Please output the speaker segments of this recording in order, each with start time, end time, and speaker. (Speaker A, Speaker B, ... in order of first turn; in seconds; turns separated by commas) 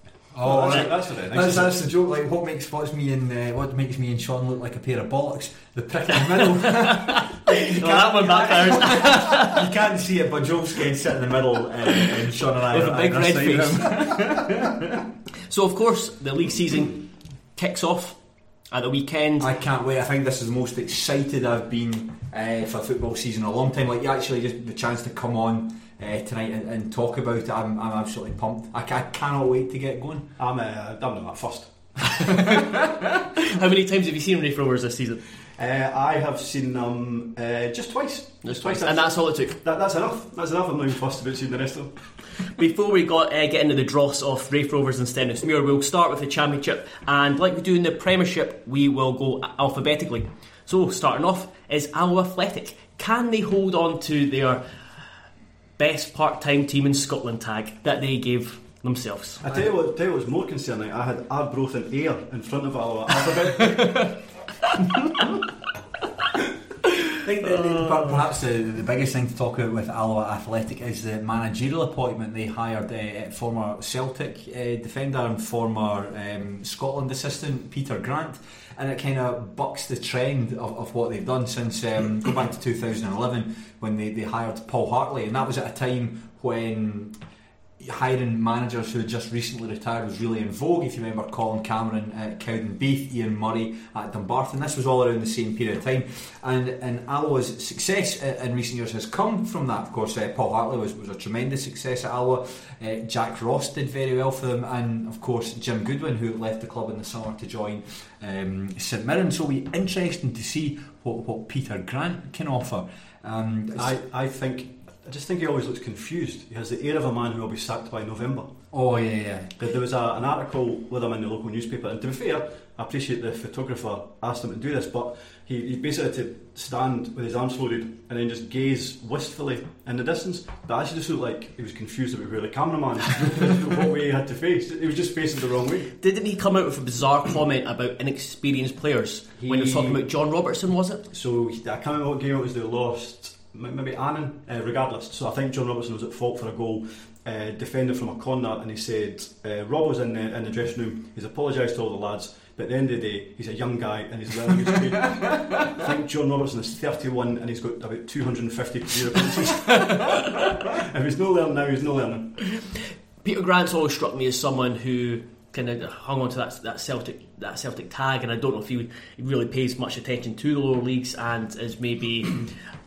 Speaker A: 0.3-14.7, Speaker B: 0.4-1.9, Speaker C: 6.4-9.6, Speaker C: 12.7-14.1, Speaker C: 15.5-19.5, Speaker A: 19.4-30.3, Speaker B: 30.4-32.3, Speaker C: 33.5-35.2, Speaker B: 35.6-42.1, Speaker C: 38.4-39.5, Speaker C: 42.5-54.6, Speaker C: 55.8-59.4, Speaker B: 59.4-64.2, Speaker A: 67.2-87.2, Speaker A: 87.8-114.0, Speaker B: 113.8-118.5, Speaker A: 118.7-119.5, Speaker B: 119.6-135.9, Speaker C: 136.0-141.0, Speaker B: 139.4-140.0, Speaker B: 141.1-162.4, Speaker C: 163.2-172.5